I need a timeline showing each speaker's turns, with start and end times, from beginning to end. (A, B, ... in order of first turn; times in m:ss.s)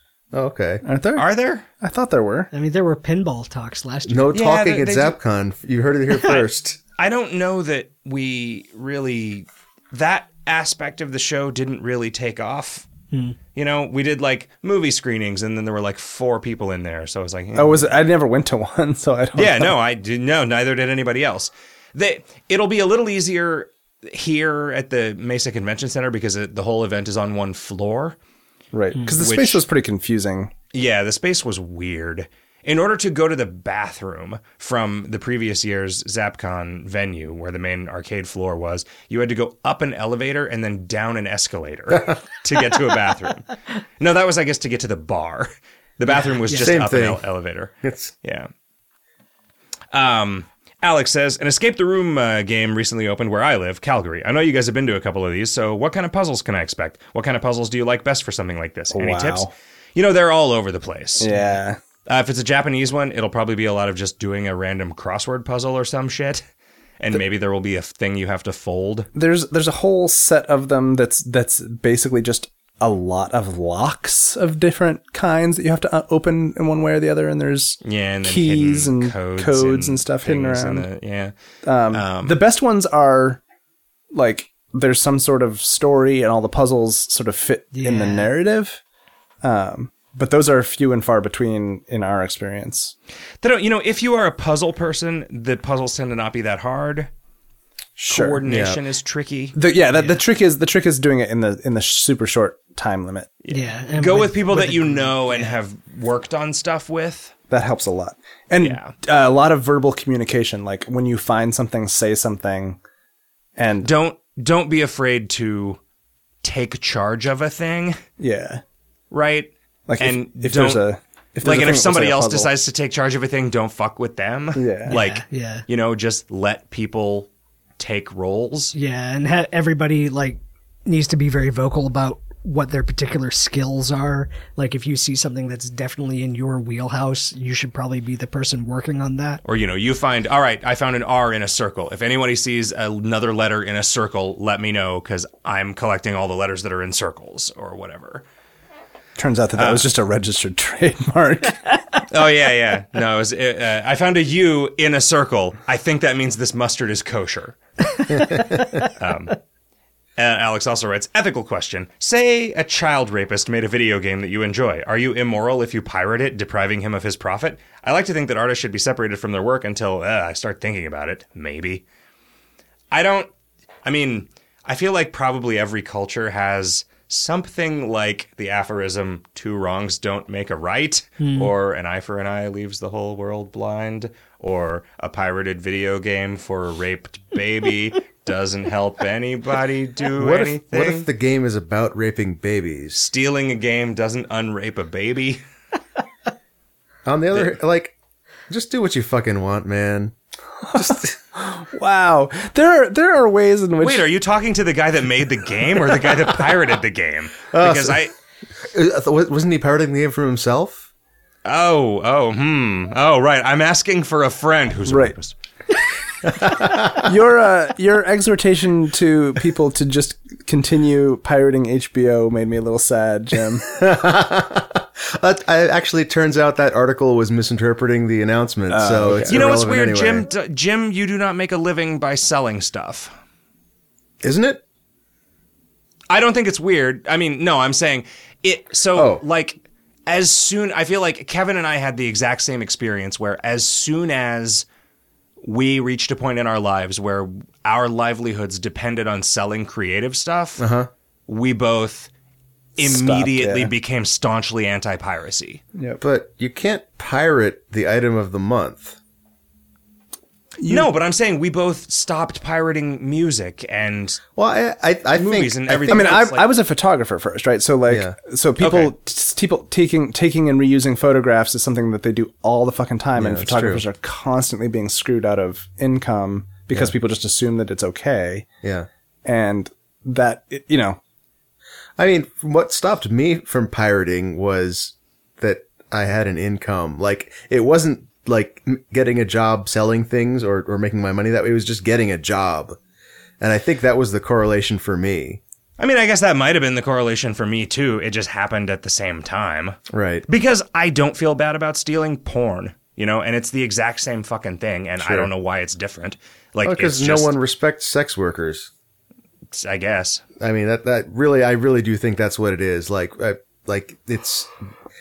0:00.3-0:00.8 A
0:00.8-0:01.3 B
0:01.1-0:01.6 C
0:01.8-0:02.5 B
0:02.5-0:04.3 D
0:04.1-0:06.8 A
0:04.3-0:05.2 C
0:07.0-0:12.8 C
0:13.1-0:13.4 D
0:13.6-0:18.0 C
0:17.6-0:19.7 B
0:19.3-0:28.2 C
0:28.7-0:30.5 B
0:29.2-0:29.6 C
0:30.7-0:48.5 C
0:46.4-0:46.8 D
0:46.6-0:47.2 A
0:47.8-0:48.1 A
0:49.9-1:01.4 C
0:58.9-0:59.5 B
1:01.2-1:01.8 B
1:02.0-1:06.4 C
1:07.0-1:09.1 C
1:09.1-1:20.9 B
1:17.8-1:21.3 C
1:21.6-1:23.4 B
1:21.9-1:22.4 C
1:24.1-1:28.8 B
1:27.7-1:28.3 D
1:29.4-1:32.9 B
1:33.4-1:37.1 C
1:38.0-1:38.4 B
1:38.0-1:39.6 C
1:38.4-1:38.8 A
1:39.6-1:43.3 B
1:43.4-1:47.3 C
1:43.5-1:45.5 D
1:47.5-1:52.8 B
1:48.6-1:48.9 C
1:53.6-1:53.9 B
1:53.8-1:55.8 C
1:56.4-1:58.0 C
1:58.2-1:58.6 B
1:59.1-2:00.9 C
1:59.9-2:02.5 B
2:01.4-2:07.3 C
2:04.6-2:05.0 B
2:04.9-2:05.6 D
2:07.8-2:08.7 C
2:08.7-2:19.4 D
2:19.4-2:28.2 C
2:29.2-2:31.6 B
2:29.6-2:29.9 C
2:32.1-2:39.4 C
2:38.3-2:38.6 A
2:40.2-2:51.8 C
2:52.9-2:53.3 C
2:53.8-3:11.0 C
3:01.2-3:01.5 D
3:10.2-3:13.0 A
3:12.9-3:15.4 C
3:17.0-3:17.9 A
3:18.5-3:20.1 A
3:20.6-3:24.0 B
3:20.7-3:21.1 A
3:23.8-3:28.1 C
3:27.5-3:28.1 A
3:28.6-3:30.9 A
3:31.4-3:35.3 C
3:34.8-3:35.1 B
3:36.3-3:37.0 A
3:36.8-3:43.7 B
3:43.7-3:50.3 A
3:48.7-3:49.6 B
3:49.2-3:53.1 C
3:54.2-3:54.6 A
3:56.1-4:04.6 C
3:58.9-3:59.2 A
4:05.4-4:10.6 C
4:10.6-4:10.9 A
4:11.3-4:12.1 C
4:12.8-4:15.6 C
4:12.8-4:13.7 B
4:15.8-4:16.0 B
4:16.0-4:19.0 A
4:20.6-4:20.9 B
4:20.6-4:24.2 C
4:24.4-4:26.2 A
4:25.1-4:26.5 C
4:25.9-4:38.5 B
4:27.9-4:28.1 A
4:28.6-4:28.9 C
4:33.2-4:33.8 A
4:39.2-4:41.0 B
4:42.0-4:52.8 A
4:53.4-4:55.4 A
4:55.8-4:59.8 C
4:59.9-5:00.3 A
5:00.3-5:07.3 C
5:05.0-5:05.3 A
5:06.6-5:08.7 A
5:09.5-5:10.2 C
5:10.4-5:14.5 A